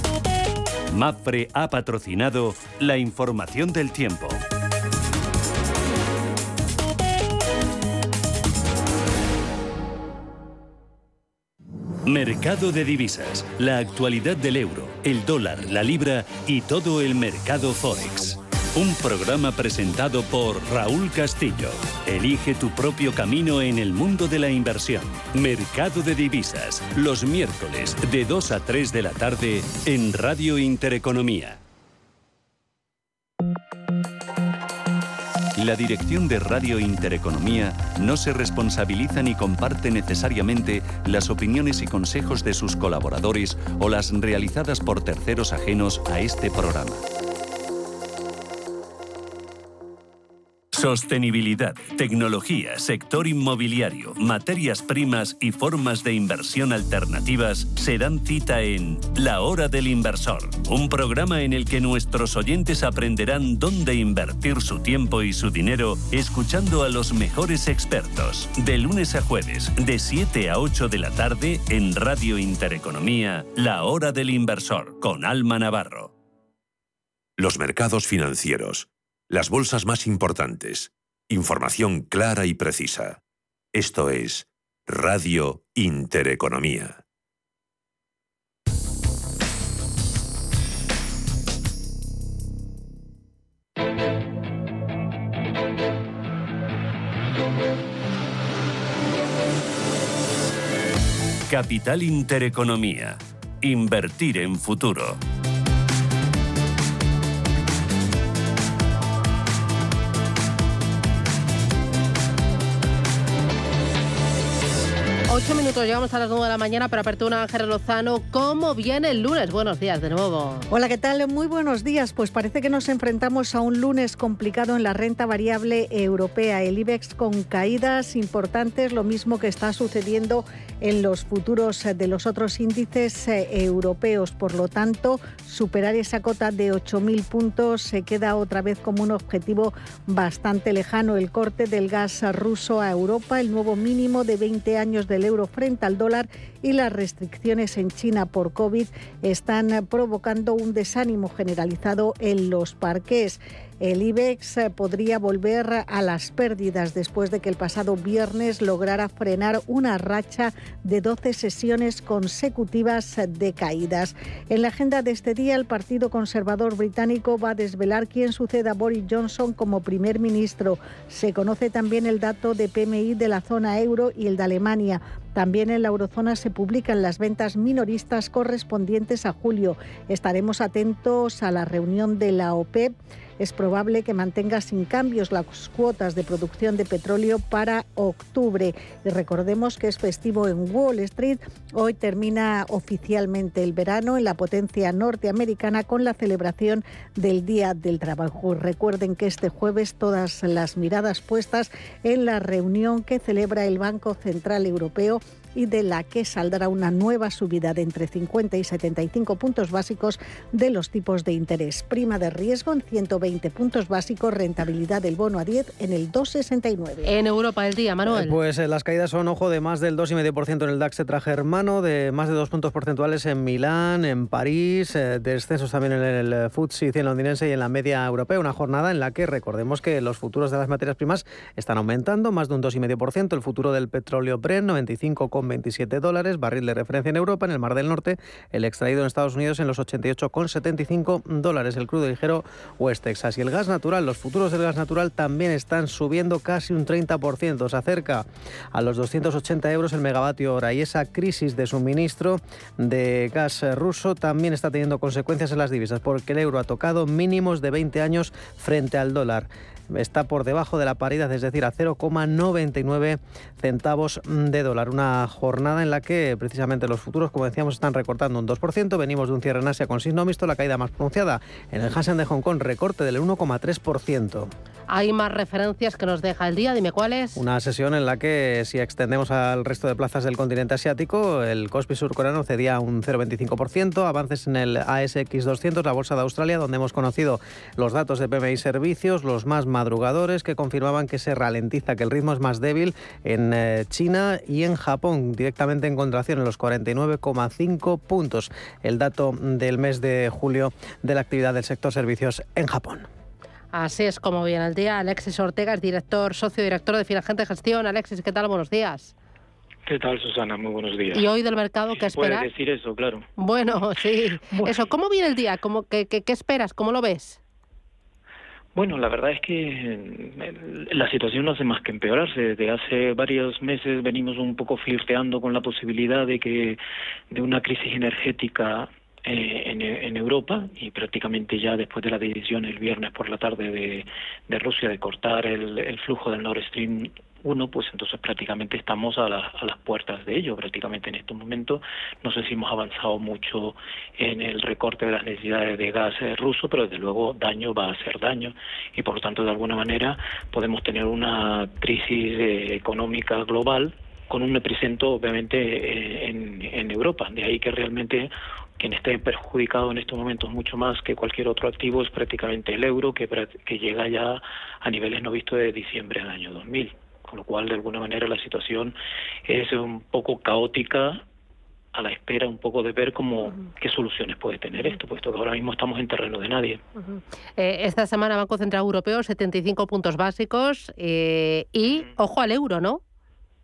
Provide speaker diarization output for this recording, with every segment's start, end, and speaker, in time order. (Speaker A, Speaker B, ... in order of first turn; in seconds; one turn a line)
Speaker A: 0.9-4.4
Speaker A: 12.1-31.6
Speaker A: 35.6-47.0
Speaker A: 50.7-76.1
Speaker B: 77.4-83.2
Speaker B: 83.7-87.0
Speaker A: 101.5-105.2
Speaker C: 115.3-120.7
Speaker D: 120.7-217.2
Speaker C: 217.0-218.4
Speaker E: 218.1-274.5
Speaker C: 274.9-277.4
Speaker E: 277.3-303.1
Speaker C: 303.7-309.1
Speaker F: 309.9-311.3
Speaker C: 311.1-312.5
Speaker F: 311.9-313.2
Speaker C: 313.4-317.4
Speaker F: 314.5-314.9
Speaker F: 318.7-326.8
Speaker F: 327.3-368.9
Speaker F: 369.4-371.2
Speaker F: 371.9-376.8
Speaker C: 377.1-383.0